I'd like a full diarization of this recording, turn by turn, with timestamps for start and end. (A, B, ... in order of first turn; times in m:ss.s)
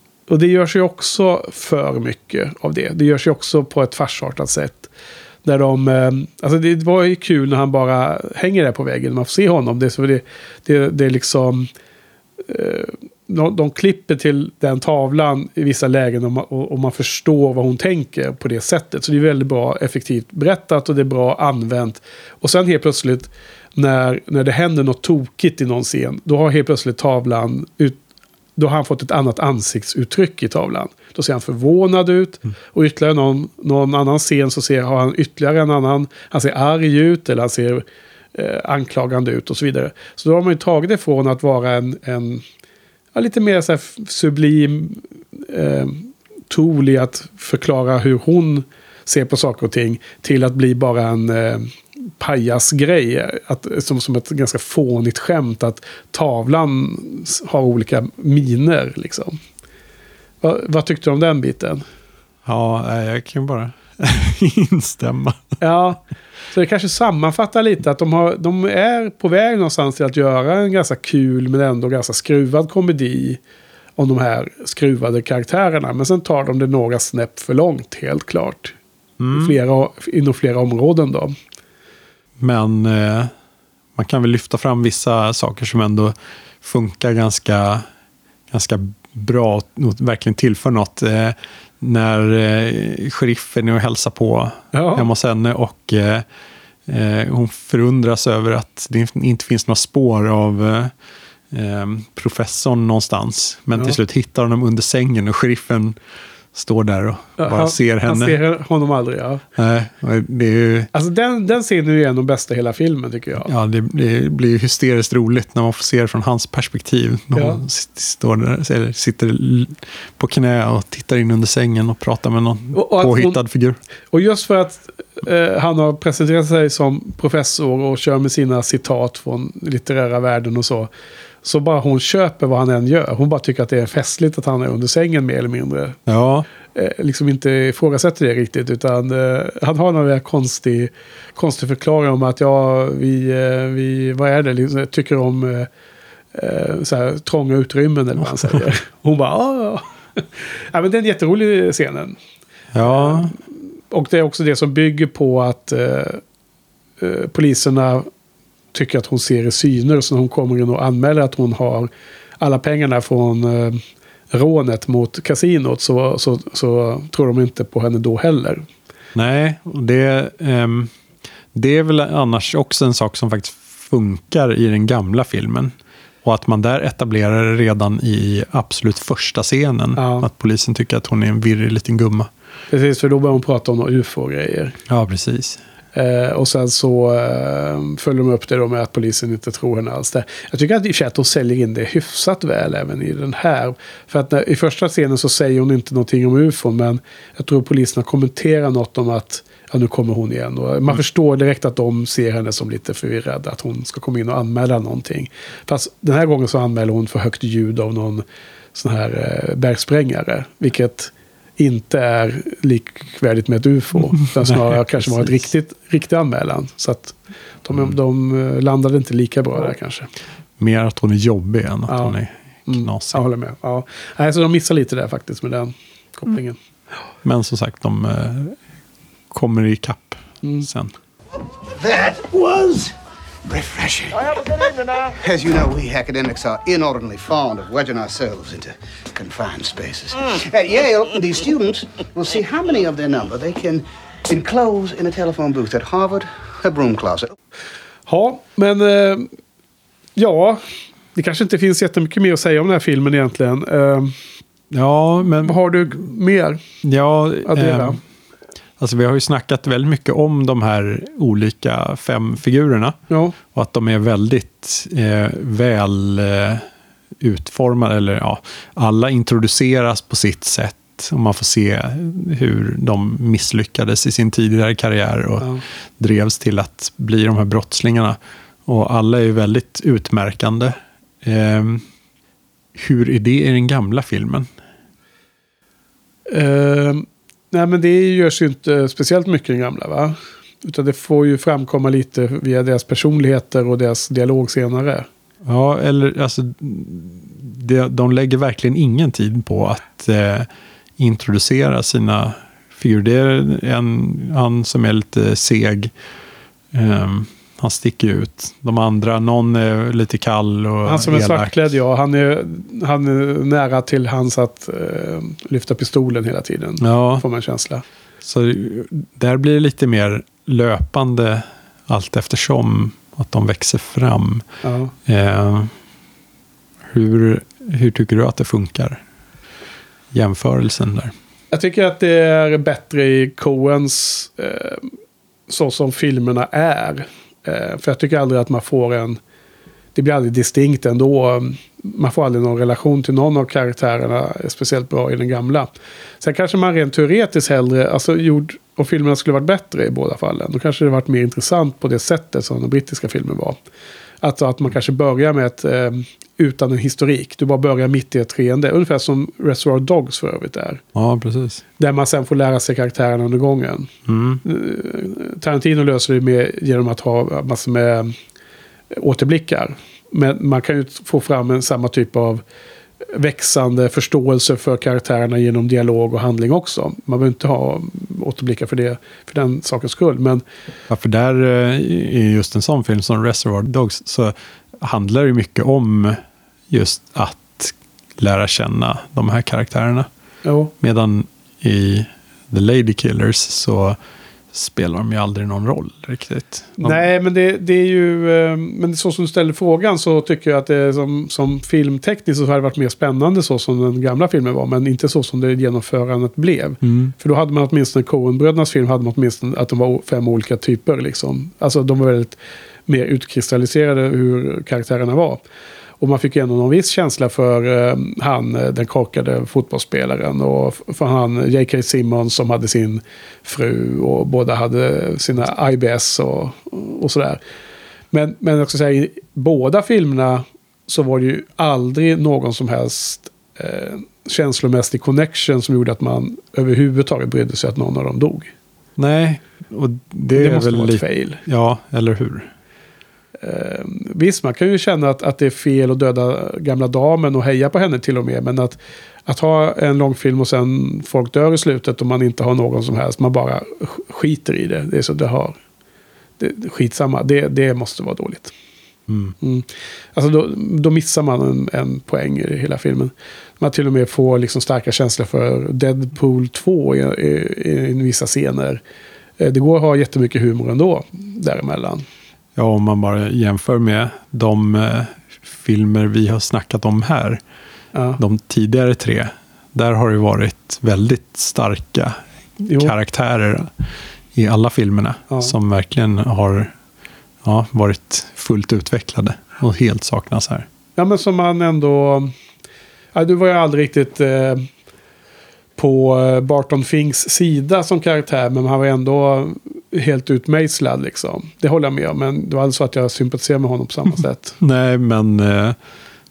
0:00.3-0:04.9 A
0:05.4-0:11.7 A
0:12.5-0:28.0 A
0:28.6-0:42.4 A
0:43.1-0:59.4 A
1:00.4-1:01.8 A
1:02.4-1:05.6 B
1:05.6-1:06.0 A
1:06.5-1:13.4 A
1:14.0-1:18.8 A
1:19.2-1:19.6 B
1:19.3-1:21.3 A
1:22.4-1:23.3 B
1:24.0-1:27.8 B
1:28.5-1:36.2 B
1:34.7-1:35.1 A
1:36.9-1:40.9 B
1:41.5-1:46.0 B
1:46.5-1:48.4 B
1:47.4-1:49.4 A
1:49.6-1:50.9 B
1:50.9-1:53.5 A
1:53.4-2:03.8 B
1:57.4-1:57.6 A
2:02.7-2:03.4 A
2:04.1-2:10.9 A
2:11.4-2:16.0 A
2:16.1-2:16.5 B
2:16.7-2:25.7 A
2:26.3-2:32.2 A
2:32.7-2:33.3 B
2:32.8-2:33.4 A
2:33.9-2:36.2 A
2:37.0-2:38.1 A
2:38.7-2:41.9 A
2:42.4-2:48.6 A
2:49.2-2:50.9 B
2:51.5-2:55.7 B
2:56.2-3:02.3 B
3:00.0-3:00.3 A
3:02.7-3:04.8 A
3:04.9-3:05.6 B
3:06.0-3:40.1 A
3:34.4-3:35.4 B
3:40.6-3:43.2 B
3:41.9-3:42.2 A
3:42.7-3:46.6 A
3:47.2-3:48.6 B
3:49.3-3:50.9 B
3:51.8-3:52.9 C
3:53.4-4:07.3 C
4:08.1-4:09.3 A
4:10.2-4:10.6 A
4:11.2-4:14.2 A
4:14.7-4:15.6 B
4:15.4-4:16.6 A
4:16.8-4:18.0 B
4:17.5-4:18.0 A
4:18.8-4:26.7 B
4:23.1-4:23.4 A
4:27.2-4:41.8 B
4:42.8-4:44.5 B
4:46.3-4:55.1 A
4:55.4-5:05.9 B
5:06.7-5:11.6 B
5:10.8-5:17.8 A
5:16.8-5:17.2 B
5:18.2-5:24.4 B
5:24.6-5:24.9 A
5:25.1-5:25.7 B
5:26.9-5:29.0 B
5:30.1-5:31.1 B
5:31.5-5:34.9 A
5:35.5-5:39.2 A
5:40.0-5:45.7 A
5:46.2-5:53.6 A
5:54.2-6:00.8 A
6:00.9-6:01.6 B
6:01.8-6:03.9 A
6:04.1-6:04.4 B
6:04.4-6:08.2 A
6:08.9-6:12.4 A
6:13.1-6:20.4 A
6:20.9-6:30.1 B
6:30.4-6:30.7 A
6:30.8-6:34.0 B
6:34.5-6:37.0 B
6:36.8-6:55.4 A
6:46.8-6:47.1 B
6:56.0-7:07.4 A
7:08.1-7:18.5 A
7:19.0-7:22.5 B
7:20.4-7:21.4 A
7:23.4-7:35.6 A
7:36.4-7:38.5 A
7:39.1-7:39.4 B
7:39.4-7:48.8 A
7:49.4-7:52.0 A
7:52.6-7:57.4 B
7:57.9-7:58.2 A
7:58.2-8:02.2 B
8:02.6-8:02.9 A
8:02.8-8:03.7 B
8:04.3-8:06.8 B
8:07.4-8:10.7 B
8:11.0-8:12.3 A
8:13.2-8:14.7 A
8:15.8-8:24.6 A
8:24.6-8:25.8 B